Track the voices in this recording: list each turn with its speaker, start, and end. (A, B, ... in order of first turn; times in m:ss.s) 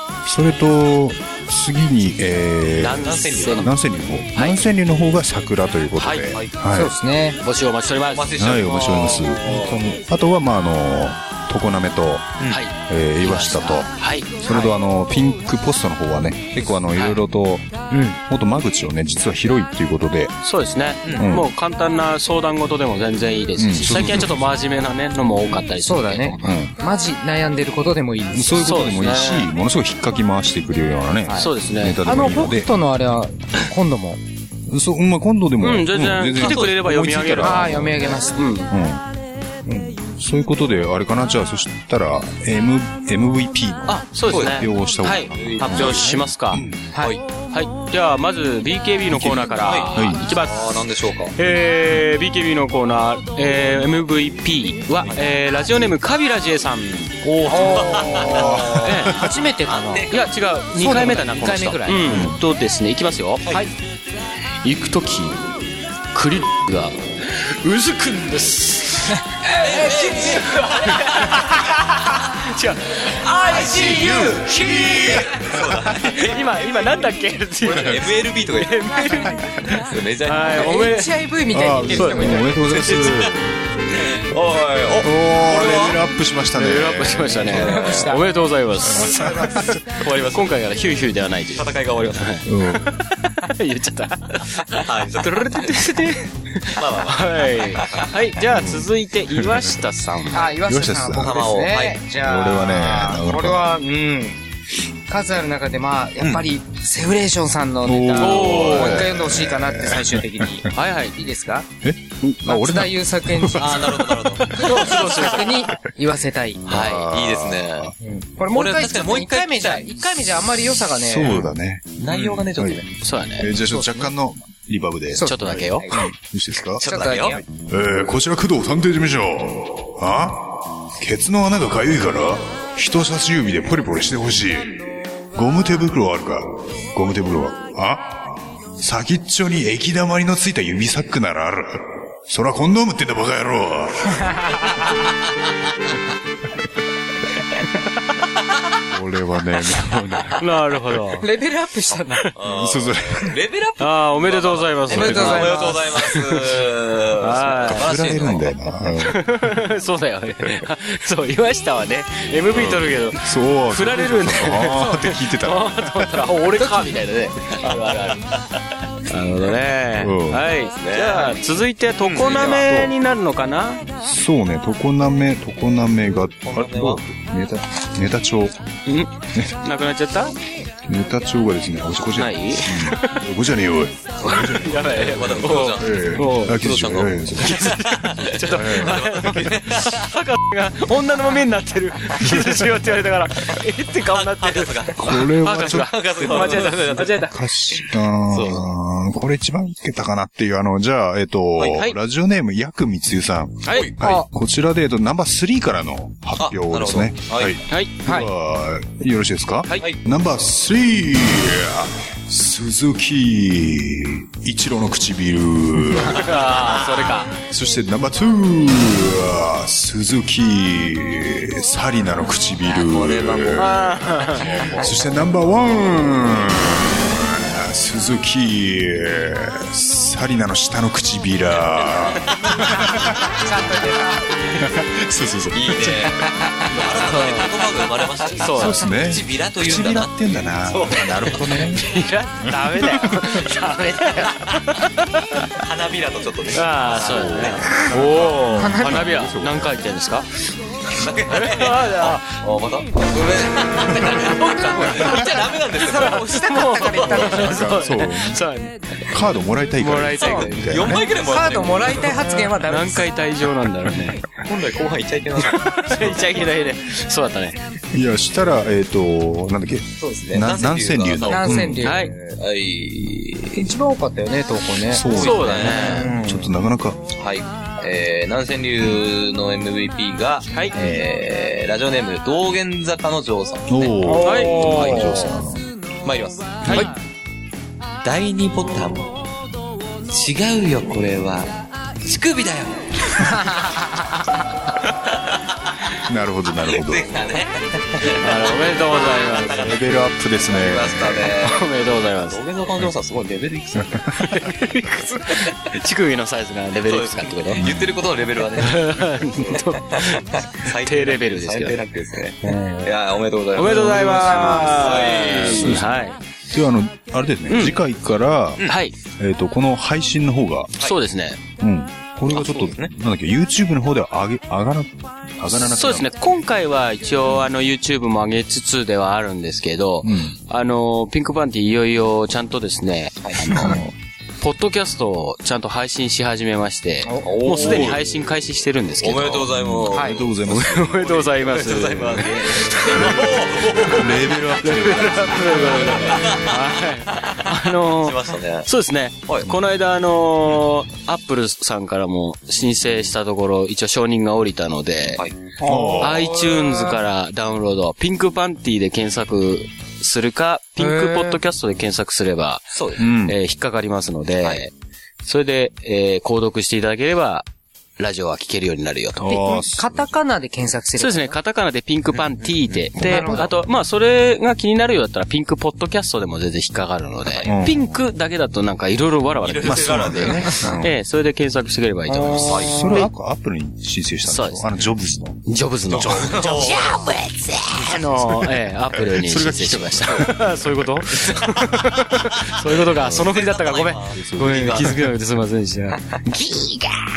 0:00.2-0:06.9 A
0:02.8-0:03.8 B
0:03.0-0:03.8 C
0:04.3-0:04.6 B
0:06.0-0:06.4 B
0:06.7-0:07.4 D
0:07.4-0:08.4 B
0:08.1-0:10.0 C
0:08.4-0:17.7 A
0:12.5-0:14.7 B
0:16.9-0:17.2 B
0:17.9-0:18.2 D
0:18.2-0:20.4 A
0:20.4-0:26.5 B
0:21.0-0:21.3 C
0:21.2-0:21.5 A
0:23.6-0:24.4 A
0:25.8-0:28.6 D
0:26.4-0:26.7 A
0:28.3-0:32.7 A
0:28.6-0:29.5 B
0:31.4-0:32.0 B
0:32.0-0:34.2 D
0:34.7-0:39.0 A
0:35.6-0:38.7 B
0:36.4-0:36.8 C
0:37.4-0:38.4 D
0:38.1-0:38.3 C
0:39.6-0:39.9 D
0:40.2-0:46.8 A
0:43.9-0:46.6 B
0:44.3-0:44.7 C
0:45.4-0:46.0 C
0:46.9-0:47.2 D
0:47.0-0:47.2 C
0:47.5-0:50.8 B
0:49.1-0:50.2 A
0:49.4-0:51.4 C
0:51.4-0:58.2 B
0:57.4-1:00.0 D
0:57.5-1:00.3 C
0:58.2-0:59.3 A
0:58.8-0:59.2 B
1:00.1-1:03.4 B
1:00.7-1:02.3 D
1:02.1-1:02.4 A
1:04.6-1:15.4 B
1:09.6-1:11.5 C
1:13.5-1:20.9 C
1:13.6-1:15.9 A
1:16.0-1:21.1 B
1:17.7-1:18.0 A
1:20.5-1:22.6 D
1:21.5-1:23.4 A
1:21.9-1:23.3 B
1:23.9-1:26.0 C
1:25.0-1:27.8 A
1:26.5-1:40.5 B
1:27.5-1:28.0 C
1:27.5-1:28.2 D
1:28.9-1:29.8 A
1:29.9-1:30.5 C
1:31.5-1:32.4 C
1:32.4-1:33.0 A
1:34.7-1:36.1 C
1:36.7-1:38.1 C
1:38.5-1:39.7 A
1:40.3-1:44.4 D
1:40.6-1:41.4 A
1:41.2-1:42.0 C
1:42.2-1:43.8 A
1:45.1-1:51.7 D
1:47.8-1:50.7 A
1:48.2-1:49.0 B
1:50.7-1:51.2 B
1:51.8-1:54.8 A
1:52.4-1:53.9 D
1:53.6-1:54.7 C
1:54.5-1:56.6 D
1:54.6-1:55.6 B
1:56.6-1:57.9 A
1:56.7-1:57.1 B
1:56.7-1:57.9 C
1:58.0-2:01.4 D
1:58.5-1:59.9 C
2:01.0-2:02.8 A
2:01.3-2:02.9 C
2:03.0-2:03.5 B
2:03.4-2:05.3 A
2:03.7-2:04.1 D
2:05.1-2:06.2 D
2:05.2-2:05.9 B
2:06.0-2:06.8 A
2:06.8-2:07.4 D
2:06.8-2:07.4 C
2:07.6-2:24.8 A
2:24.2-2:24.8 D
2:28.9-2:30.4 A
2:30.4-2:31.2 B
2:31.2-2:32.3 D
2:32.3-2:38.6 C
2:32.4-2:33.4 A
2:33.8-2:36.6 B
2:34.9-2:35.8 D
2:34.9-2:35.4 A
2:37.2-2:37.9 B
2:37.6-2:39.2 A
2:39.0-2:48.3 B
2:42.5-2:46.1 A
2:46.6-2:47.0 D
2:47.6-2:48.2 C
2:49.1-2:53.8 B
2:50.0-2:50.4 A
2:50.5-2:51.4 C
2:52.0-2:52.7 C
2:52.2-2:52.9 A
2:54.0-2:58.6 A
2:56.2-2:57.0 C
2:58.8-3:00.3 B
3:00.9-3:09.0 A
3:02.2-3:03.2 B
3:04.2-3:06.7 B
3:04.9-3:10.0 C
3:07.4-3:17.4 B
3:12.2-3:12.6 A
3:14.1-3:18.7 C
3:15.0-3:16.0 A
3:16.6-3:36.8 A
3:21.6-3:21.8 C
3:21.7-3:22.0 B
3:23.6-3:23.9 B
3:23.7-3:24.0 C
3:26.4-3:27.6 C
3:27.7-3:27.9 B
3:28.0-3:28.3 D
3:29.7-3:29.9 B
3:36.1-3:37.3 B
3:37.4-3:43.8 A
3:42.6-3:45.0 C
3:43.6-3:44.5 B
3:44.4-3:53.2 A
3:52.0-3:52.8 C
3:53.2-3:54.2 D
3:54.5-3:56.1 A
3:55.5-4:01.3 C
3:57.0-3:57.5 D
3:58.3-3:58.8 B
3:58.5-4:01.9 A
4:01.3-4:05.6 B
4:02.4-4:03.2 A
4:05.6-4:08.2 C
4:06.5-4:10.3 B
4:07.0-4:09.8 A
4:08.5-4:09.2 D
4:10.9-4:17.7 C
4:11.3-4:12.4 B
4:14.3-4:17.8 D
4:14.6-4:19.2 B
4:17.3-4:18.4 A
4:19.1-4:21.1 A
4:19.8-4:21.0 B
4:20.2-4:22.2 C
4:21.1-4:23.1 D
4:22.1-4:24.2 B
4:24.1-4:26.5 C
4:25.4-4:27.6 B
4:27.9-4:31.9 A
4:30.0-4:31.8 C
4:31.2-4:32.4 D
4:31.8-4:32.1 B
4:32.3-4:33.6 C
4:33.5-4:35.1 D
4:34.8-4:37.0 A
4:35.1-4:36.2 C
4:35.1-4:36.1 B
4:35.7-4:36.5 D
4:37.1-4:44.0 C
4:40.7-4:41.0 A
4:43.7-4:45.7 A
4:44.0-4:45.4 D
4:44.2-4:44.8 B
4:46.0-4:46.9 C
4:46.6-4:46.9 B
4:48.0-4:49.4 C
4:50.1-4:53.2 C
4:53.5-4:53.8 D
4:55.0-4:56.0 C
4:56.1-4:57.1 A
4:56.6-4:59.9 C
4:58.2-4:59.7 B
4:59.5-5:01.2 A
5:00.4-5:04.4 C
5:01.4-5:02.4 B
5:04.2-5:07.8 B
5:06.8-5:15.8 C
5:07.6-5:07.9 A
5:08.6-5:11.8 B
5:12.4-5:12.9 D
5:13.6-5:16.2 B
5:15.5-5:16.0 A
5:16.5-5:20.7 A
5:17.5-5:17.8 B
5:18.7-5:19.0 B
5:20.8-5:21.4 B
5:21.6-5:26.1 A
5:22.3-5:22.9 C
5:25.5-5:33.9 B
5:30.0-5:30.3 A
5:33.2-5:33.8 C
5:33.6-5:33.9 A
5:34.4-5:39.5 B
5:37.0-5:37.3 D
5:37.2-5:38.0 C
5:37.5-5:38.0 A
5:39.0-5:48.7 C
5:39.6-5:41.2 A
5:39.9-5:40.2 D
5:40.4-5:44.1 B
5:43.0-5:43.2 A
5:43.8-5:45.9 A
5:44.6-5:55.2 B
5:55.1-5:55.4 C
5:55.6-5:57.0 D
5:55.6-5:56.3 A
5:56.0-6:04.7 B
6:00.8-6:01.4 D
6:02.7-6:03.0 C
6:03.0-6:03.4 A
6:05.2-6:07.5 B
6:08.0-6:09.4 B
6:09.2-6:10.1 A
6:09.3-6:11.4 D
6:11.0-6:23.1 B
6:12.4-6:13.1 C
6:13.0-6:13.4 A
6:13.0-6:13.5 D
6:17.2-6:17.6 C
6:17.4-6:17.8 A
6:19.4-6:20.8 C
6:19.6-6:20.9 A
6:22.1-6:23.0 D
6:22.4-6:22.8 C
6:22.6-6:25.4 A
6:24.2-6:24.7 B
6:25.4-6:36.9 B
6:25.9-6:27.1 C
6:26.0-6:26.4 A
6:27.7-6:28.4 C
6:28.9-6:30.4 A
6:33.0-6:35.0 C
6:33.0-6:33.3 A
6:34.1-6:35.0 A